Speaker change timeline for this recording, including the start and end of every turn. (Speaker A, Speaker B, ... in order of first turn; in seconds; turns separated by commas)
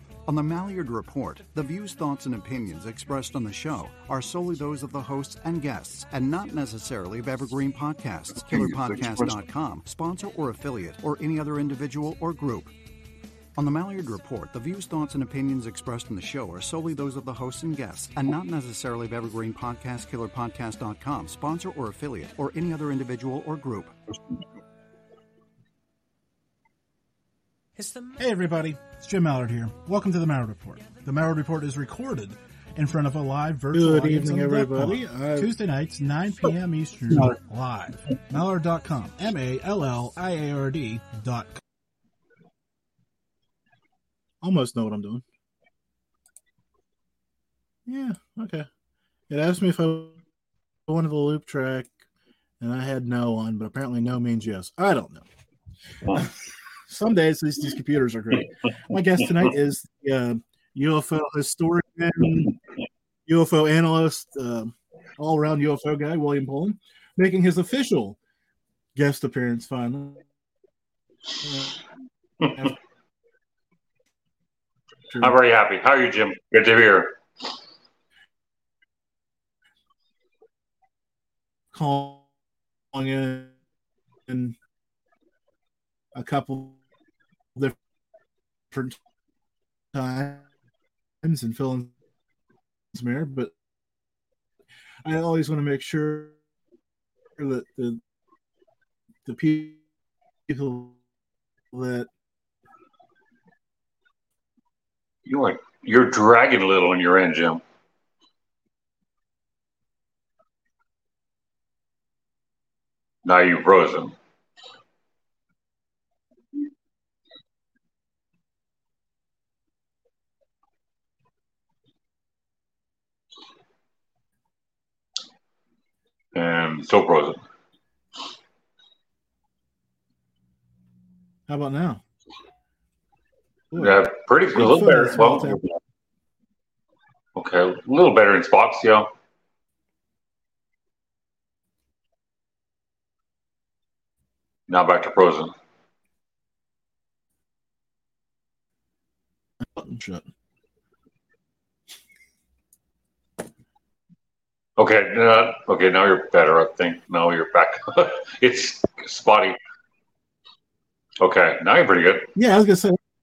Speaker A: 0.3-12.7, Speaker A: 13.6-23.9, Speaker B: 28.2-41.6, Speaker C: 33.7-35.5, Speaker C: 37.0-37.4, Speaker C: 38.3-38.8, Speaker C: 44.4-45.2, Speaker C: 47.9-48.7, Speaker C: 49.3-50.2, Speaker C: 50.9-52.0, Speaker C: 52.6-55.2, Speaker C: 56.9-62.5, Speaker C: 63.2-68.2, Speaker C: 68.9-70.2, Speaker C: 71.4-71.7, Speaker C: 75.1-75.3, Speaker D: 75.2-77.1, Speaker C: 81.7-82.2, Speaker C: 82.9-83.5, Speaker C: 84.3-84.5, Speaker C: 86.1-86.8, Speaker C: 88.7-89.0, Speaker C: 89.9-90.4, Speaker C: 91.2-91.9, Speaker C: 92.9-93.5, Speaker C: 95.0-96.3, Speaker C: 97.4-98.0, Speaker C: 99.2-99.8, Speaker C: 100.5-101.0, Speaker C: 101.7-102.1, Speaker D: 105.2-107.6, Speaker D: 113.2-114.1, Speaker D: 126.3-127.4, Speaker C: 131.5-132.0, Speaker C: 133.7-135.6, Speaker D: 133.8-135.7, Speaker D: 137.3-139.1, Speaker D: 144.7-145.5, Speaker C: 149.6-150.3, Speaker D: 154.8-159.6, Speaker D: 161.2-162.3, Speaker C: 162.3-163.0